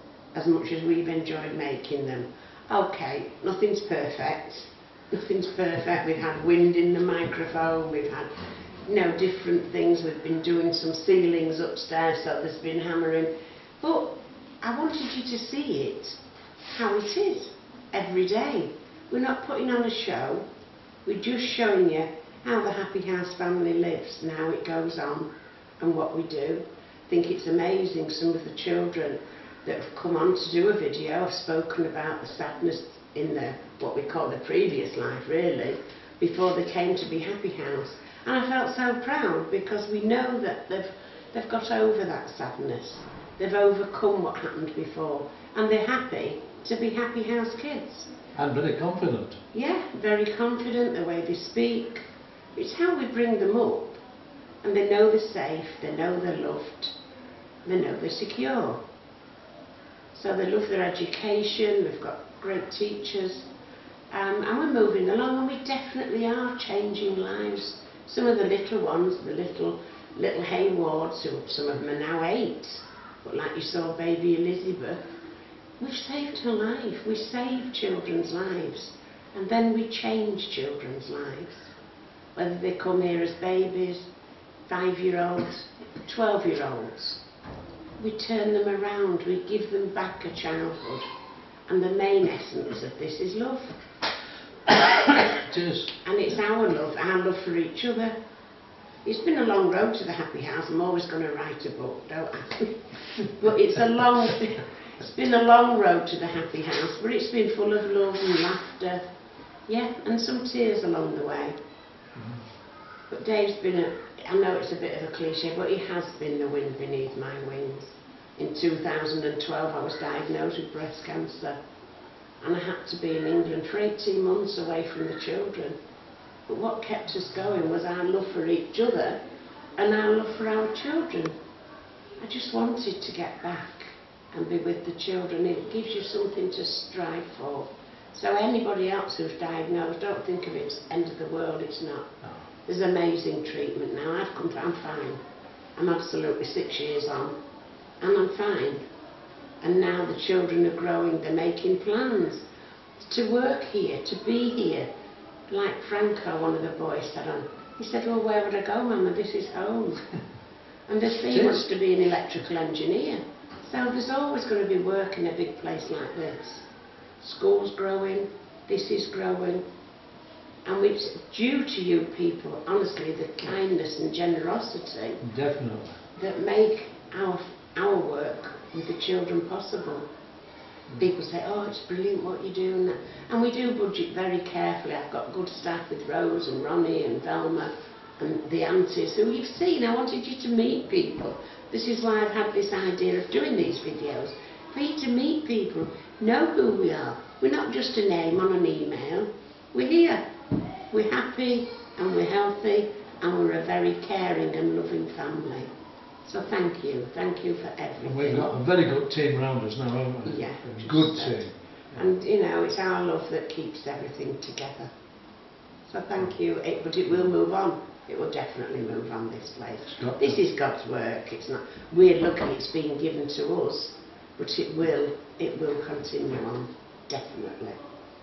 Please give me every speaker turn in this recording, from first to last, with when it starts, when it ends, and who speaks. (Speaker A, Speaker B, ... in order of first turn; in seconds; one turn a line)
Speaker A: 0.3-8.3
Speaker A: 8.9-16.2
Speaker A: 16.7-20.4
Speaker A: 21.1-48.1
Speaker B: 48.4-49.4
Speaker A: 49.5-54.0
Speaker A: 54.6-56.9
Speaker A: 57.6-58.8
Speaker A: 60.1-63.5
Speaker A: 64.1-75.0
Speaker A: 75.8-81.7
Speaker A: 82.3-84.1
Speaker A: 84.7-87.2
Speaker A: 88.0-91.1
Speaker A: 91.7-93.8
Speaker B: 95.4-95.9
Speaker A: 96.0-98.1
Speaker A: 99.0-109.0
Speaker A: 109.7-111.6
Speaker B: 112.2-112.4
Speaker A: 113.1-121.6
Speaker A: 122.4-125.8
Speaker A: 126.5-129.2
Speaker A: 129.8-131.3
Speaker A: 132.2-145.2
Speaker A: 145.8-147.3
Speaker A: 148.0-148.8
Speaker A: 149.6-152.4
Speaker A: 153.0-154.9
Speaker A: 155.5-160.1
Speaker A: 160.9-166.7
Speaker B: 161.3-161.6
Speaker A: 167.2-169.6
Speaker A: 170.7-175.2
Speaker B: 175.2-176.0
Speaker A: 176.1-180.1
Speaker A: 180.9-200.2
Speaker A: 200.9-205.7
Speaker A: 206.2-208.5
Speaker B: 208.0-211.6
Speaker A: 210.2-214.9
Speaker A: 215.9-227.8
Speaker B: 220.0-220.4